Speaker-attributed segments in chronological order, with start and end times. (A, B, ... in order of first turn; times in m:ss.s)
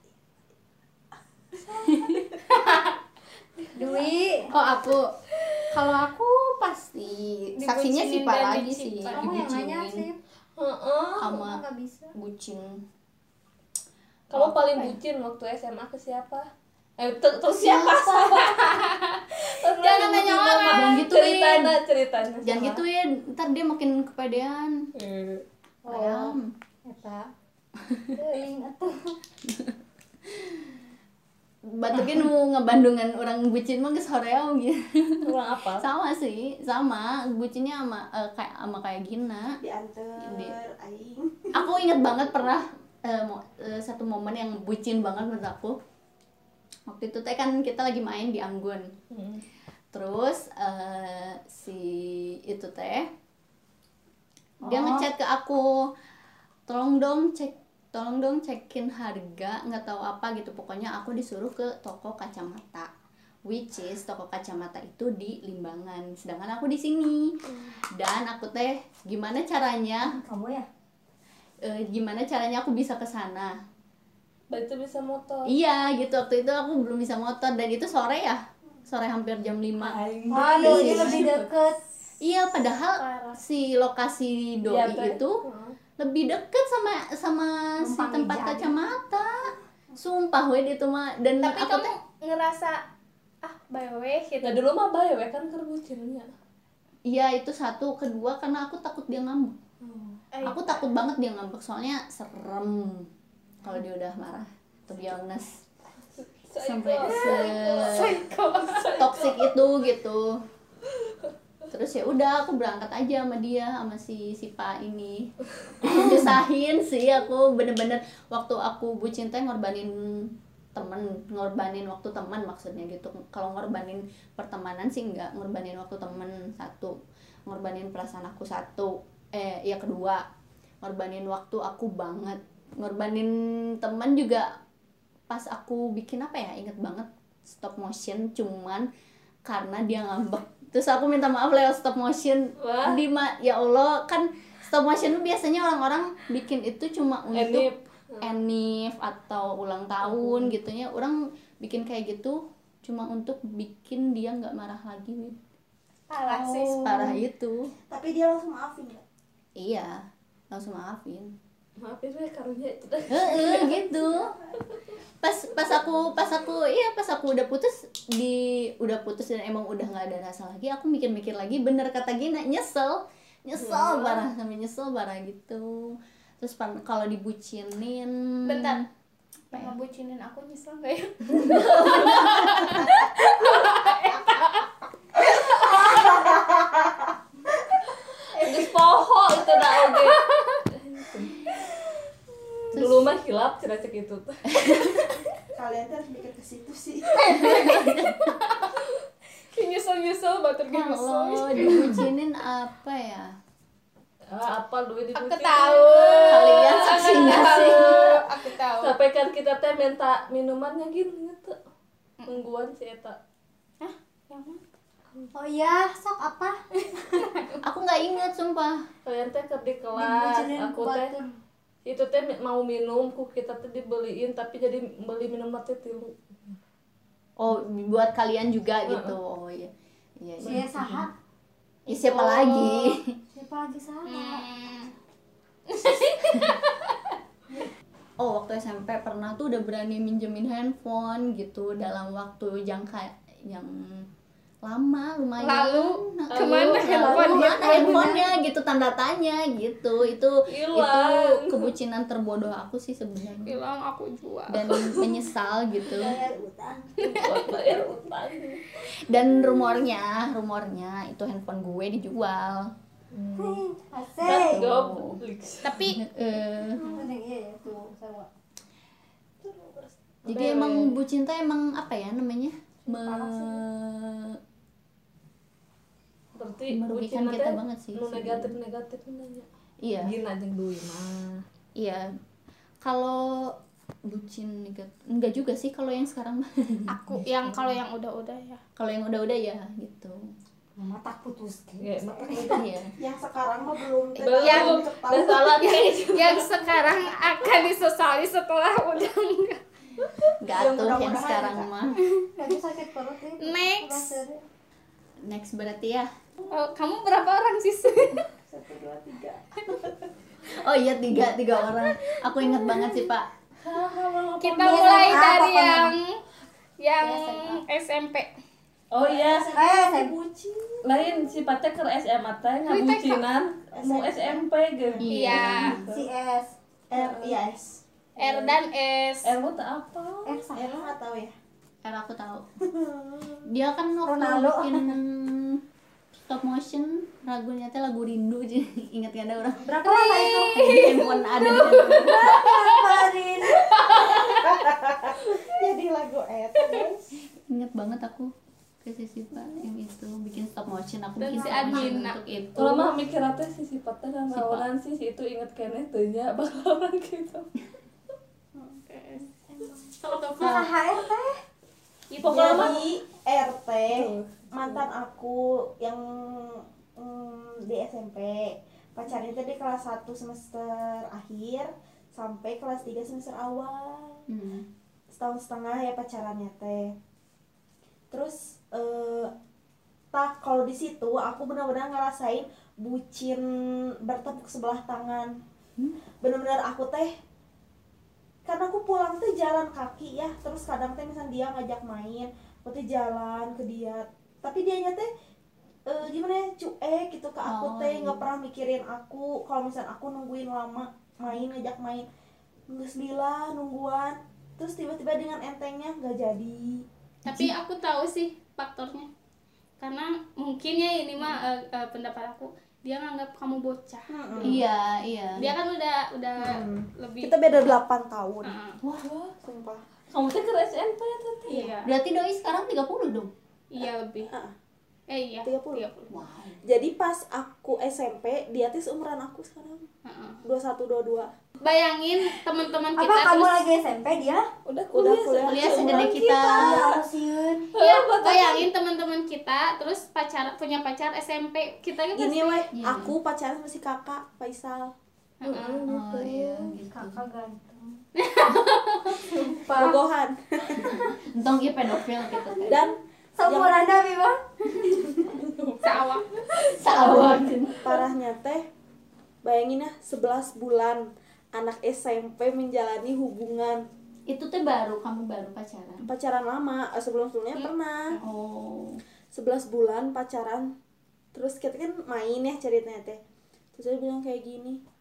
0:01.7-0:02.1 A
0:01.8-0:02.3 B
0:02.5-0:03.0 C
0:03.7-0:04.5 D
0:04.5-0:05.0 C
0:04.5-0:05.0 B
0:05.7-0:10.1 B
0:07.6-0:08.3 D
0:07.9-0:09.4 C
0:09.1-0:10.2 D
0:10.6-0:11.4 E
0:11.2-0:11.6 B
0:11.3-0:12.1 D
0:12.1-0:12.8 B
0:14.3-0:18.8 E
0:14.3-0:15.0 B
0:17.5-0:18.4 B
0:18.2-0:21.1 C
0:19.4-0:22.8 E
0:20.7-0:21.8 B
0:22.4-0:24.9 B
0:25.0-0:25.4 E
0:25.8-0:27.3 D
0:25.9-0:26.5 B
0:28.1-0:29.2 D
0:31.6-0:39.6 B
0:35.2-0:35.9 E
0:39.6-0:41.7 A
0:40.2-0:40.5 B
0:41.5-0:45.8 B
0:46.9-0:48.9 B
0:49.1-0:49.4 E
0:49.9-0:53.1 B
0:54.6-0:55.9 B
0:54.6-0:55.1 D
0:56.7-1:02.9 B
1:03.5-1:07.4 B
1:07.9-1:10.2 B
1:10.0-1:10.7 D
1:11.6-1:13.6 B
1:14.5-1:15.5 E
1:15.5-1:21.3 B
1:19.9-1:21.8 D
1:20.1-1:21.5 E
1:22.2-1:25.4 B
1:23.0-1:23.4 C
1:24.7-1:25.8 E
1:26.0-1:31.9 B
1:27.8-1:28.8 D
1:31.4-1:32.8 C
1:33.4-1:34.6 C
1:34.4-1:36.3 E
1:37.1-1:39.6 B
1:40.3-1:40.9 C
1:40.4-1:43.1 B
1:43.6-1:45.6 B
1:46.2-1:49.6 E
1:46.6-1:48.2 B
1:47.0-1:49.2 C
1:49.0-1:50.4 B
1:51.7-2:10.2 B
2:10.8-2:14.5 B
2:15.3-2:18.9 B
2:19.5-2:27.7 B
2:22.6-2:23.0 E
2:27.3-2:28.3 E
2:28.2-2:35.4 B
2:30.0-2:30.5 E
2:36.1-2:37.2 D
2:36.2-2:37.0 C
2:36.7-2:37.7 B
2:37.9-2:39.0 A
2:39.6-2:41.4 B
2:41.8-2:43.8 E
2:43.1-2:44.3 B
2:45.2-2:58.8 B
2:53.6-2:54.3 E
2:58.5-2:58.8 C
2:59.5-3:04.7 C
3:01.4-3:02.4 E
3:01.4-3:02.7 B
3:05.2-3:06.3 C
3:08.3-3:11.7 E
3:08.4-3:08.7 C
3:09.6-3:10.6 C
3:12.6-3:14.8 E
3:12.7-3:13.1 B
3:14.5-3:15.2 B
3:15.5-3:17.5 A
3:17.2-3:18.4 B
3:17.2-3:18.8 C
3:19.5-3:22.0 C
3:20.7-3:23.4 B
3:21.6-3:21.9 E
3:24.3-3:31.6 E
3:25.2-3:29.0 C
3:26.3-3:28.2 B
3:32.3-3:33.2 E
3:33.8-3:34.6 C
3:35.3-3:36.6 D
3:37.0-3:37.6 C
3:37.6-3:38.9 B
3:39.0-3:41.2 E
3:40.0-3:41.3 D
3:41.8-3:46.2 E
3:47.4-3:51.1 B
3:48.9-3:49.2 E
3:50.4-3:51.1 D
3:51.9-3:53.2 B
3:51.9-3:52.9 C
3:53.3-3:54.4 D
3:54.1-3:54.9 C
3:55.7-3:57.2 C
3:56.3-3:56.6 B
3:58.2-4:04.1 B
4:04.6-4:13.6 B
4:05.4-4:07.7 C
4:06.3-4:08.2 E
4:07.6-4:08.3 D
4:10.5-4:11.7 E
4:13.4-4:15.1 C
4:14.5-4:16.2 B
4:15.8-4:16.9 D
4:17.0-4:17.5 C
4:17.0-4:18.7 E
4:17.2-4:17.5 B
4:18.9-4:22.7 B
4:23.1-4:23.6 E
4:23.4-4:24.7 D
4:24.2-4:25.8 E
4:24.3-4:25.2 B
4:25.6-4:26.0 C
4:25.9-4:27.0 B
4:26.8-4:28.3 D
4:29.4-4:31.0 E
4:30.3-4:34.4 B
4:32.8-4:33.6 D
4:36.4-4:39.5 E
4:36.7-4:38.6 B
4:39.8-4:40.1 B
4:40.0-4:41.4 E
4:41.8-4:42.1 B
4:42.8-4:43.6 B
4:44.1-4:46.9 B
4:46.9-4:48.6 C
4:48.8-4:50.2 B
4:50.8-4:52.6 D
4:51.8-4:52.6 E
4:52.4-4:52.9 B
4:53.0-4:55.5 A
4:54.2-4:56.9 E
4:54.3-4:54.8 C
4:55.5-4:59.6 C
5:00.4-5:02.0 B
5:00.6-5:01.1 E
5:00.6-5:01.7 A
5:02.3-5:04.4 D
5:03.4-5:04.2 C
5:05.2-5:06.1 B
5:06.5-5:08.3 C
5:08.5-5:09.8 A
5:10.5-5:13.3 B
5:11.6-5:13.0 C
5:13.8-5:15.2 A
5:14.4-5:16.2 C
5:14.6-5:15.9 D
5:16.8-5:18.3 C
5:17.0-5:17.6 B
5:18.9-5:19.6 E
5:19.0-5:21.3 A
5:19.6-5:20.1 D
5:20.8-5:26.1 E
5:22.7-5:23.2 C
5:23.7-5:24.5 A
5:25.0-5:25.9 B
5:25.1-5:25.8 C
5:25.6-5:26.5 D
5:26.9-5:27.8 A
5:26.9-5:27.4 E
5:28.2-5:29.3 C
5:28.2-5:28.5 E
5:29.2-5:30.5 E
5:30.2-5:30.9 D
5:30.5-5:31.4 A
5:31.8-5:32.5 B
5:32.6-5:33.5 A
5:33.4-5:35.6 B
5:34.0-5:35.0 D
5:36.2-5:39.7 B
5:39.6-5:40.8 D
5:39.8-5:44.6 C
5:40.5-5:42.3 B
5:41.4-5:44.2 D
5:44.2-5:47.1 A
5:47.5-5:52.9 B
5:51.2-5:52.2 C
5:52.6-5:57.5 E
5:54.3-5:54.7 B
5:58.8-5:59.3 C
6:00.0-6:00.8 C
6:00.4-6:01.4 D
6:02.1-6:02.8 C
6:02.2-6:02.8 E
6:02.2-6:14.3 A
6:03.9-6:04.8 E
6:14.3-6:14.7 B
6:15.1-6:17.0 A
6:18.1-6:19.3 A
6:20.1-6:25.4 A
6:26.2-6:27.1 A
6:28.4-6:35.1 A
6:35.9-6:42.1 A
6:37.4-6:38.2 B
6:42.7-6:46.9 A
6:47.3-6:47.6 B
6:47.3-6:49.1 C
6:49.8-6:54.6 C
6:54.1-6:54.6 A
6:54.4-6:55.5 B
6:55.4-6:57.7 C
6:56.4-6:58.6 A
6:58.4-6:58.8 C
6:59.0-6:59.3 E
6:59.4-6:59.8 A
7:00.1-7:01.7 E
7:01.5-7:01.9 C
7:01.8-7:03.3 B
7:03.7-7:04.3 C
7:04.3-7:04.6 A
7:05.1-7:06.1 C
7:05.4-7:05.9 A
7:06.1-7:06.6 B
7:06.6-7:09.9 A
7:10.1-7:10.4 C
7:10.4-7:11.3 A
7:11.6-7:13.6 C
7:13.0-7:14.5 D
7:14.7-7:16.8 E
7:14.9-7:16.9 A
7:15.4-7:16.9 B
7:16.5-7:17.7 D
7:17.7-7:22.7 C
7:17.8-7:18.7 E
7:22.2-7:24.9 A
7:22.7-7:23.1 B
7:25.4-7:25.9 C
7:25.4-7:26.7 E
7:25.9-7:27.2 B
7:26.8-7:28.0 D
7:28.2-7:29.9 C
7:28.5-7:29.2 B
7:29.3-7:30.0 E
7:29.7-7:31.0 A
7:30.8-7:32.8 B
7:32.7-7:33.9 A
7:33.4-7:35.0 D
7:35.5-7:37.4 E
7:35.8-7:36.4 C
7:36.7-7:37.8 B
7:37.8-7:38.7 A
7:39.4-7:43.8 A
7:44.3-7:46.0 B
7:46.0-7:48.2 A
7:48.2-7:49.0 B
7:49.3-7:50.7 A
7:51.3-7:53.2 A
7:53.8-7:54.8 A